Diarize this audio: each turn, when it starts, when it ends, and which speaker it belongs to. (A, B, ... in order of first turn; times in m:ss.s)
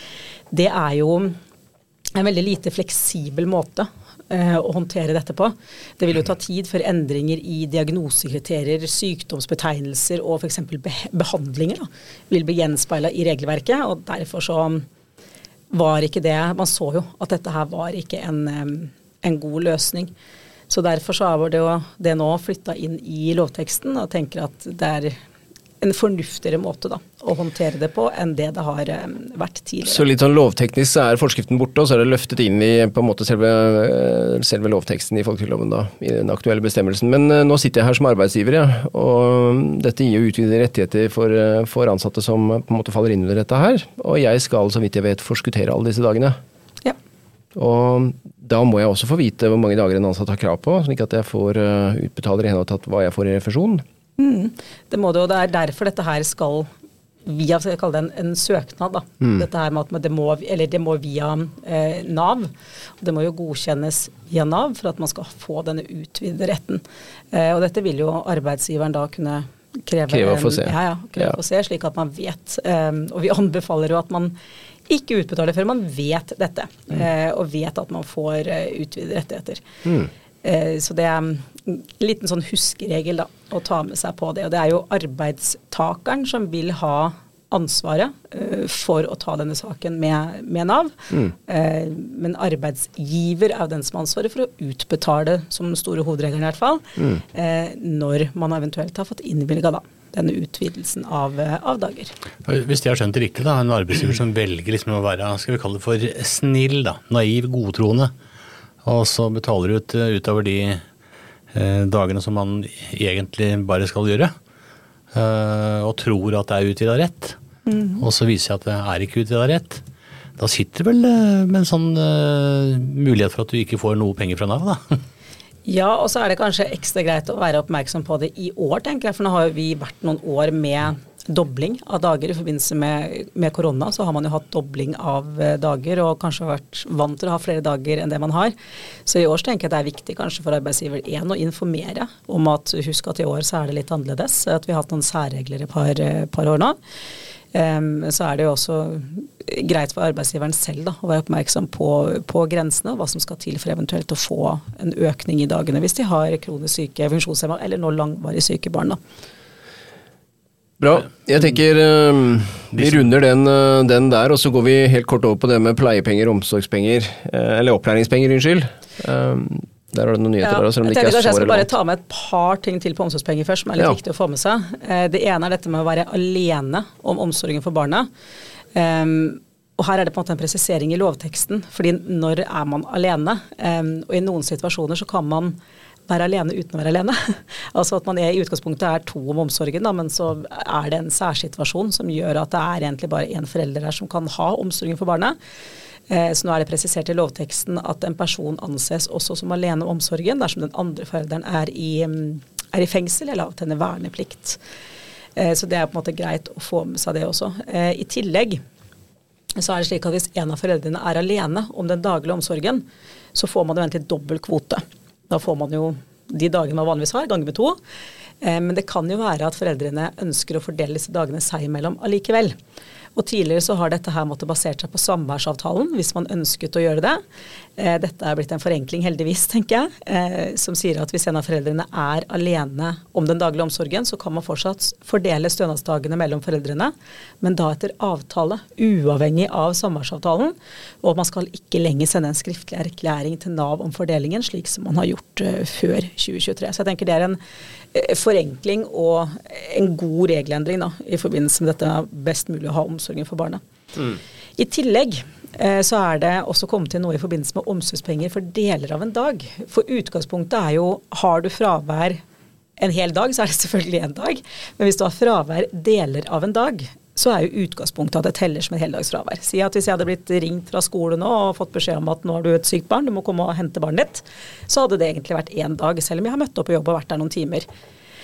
0:00.5-0:01.4 A
0:02.1-0:14.8 A
0:15.7-0:20.1 A
0:20.7-0:25.2 A
0:25.8-0:30.0 A
0:29.8-0:46.4 B
0:47.5-0:53.8 B
0:54.2-0:56.7 A
0:57.2-1:14.3 A
1:10.1-1:11.3 B
1:14.9-1:19.6 A
1:19.8-1:20.1 B
1:20.4-1:42.1 A
1:42.4-1:48.1 C
1:48.8-1:50.8 C
1:51.5-1:54.3 C
1:55.1-1:57.4 C
1:57.7-1:58.0 A
1:58.0-1:59.8 C
2:00.4-2:05.0 C
2:05.6-2:18.5 A
2:19.0-2:26.8 A
2:27.5-2:39.0 A
2:40.8-2:51.7 B
2:50.4-2:58.1 A
2:58.7-3:15.4 A
3:16.1-3:24.6 A
3:25.4-3:28.6 A
3:29.6-3:37.8 A
3:38.4-3:42.5 A
3:43.2-3:47.2 A
3:47.8-4:07.4 A
4:07.9-4:13.6 A
4:14.6-4:22.2 A
4:22.8-4:37.6 A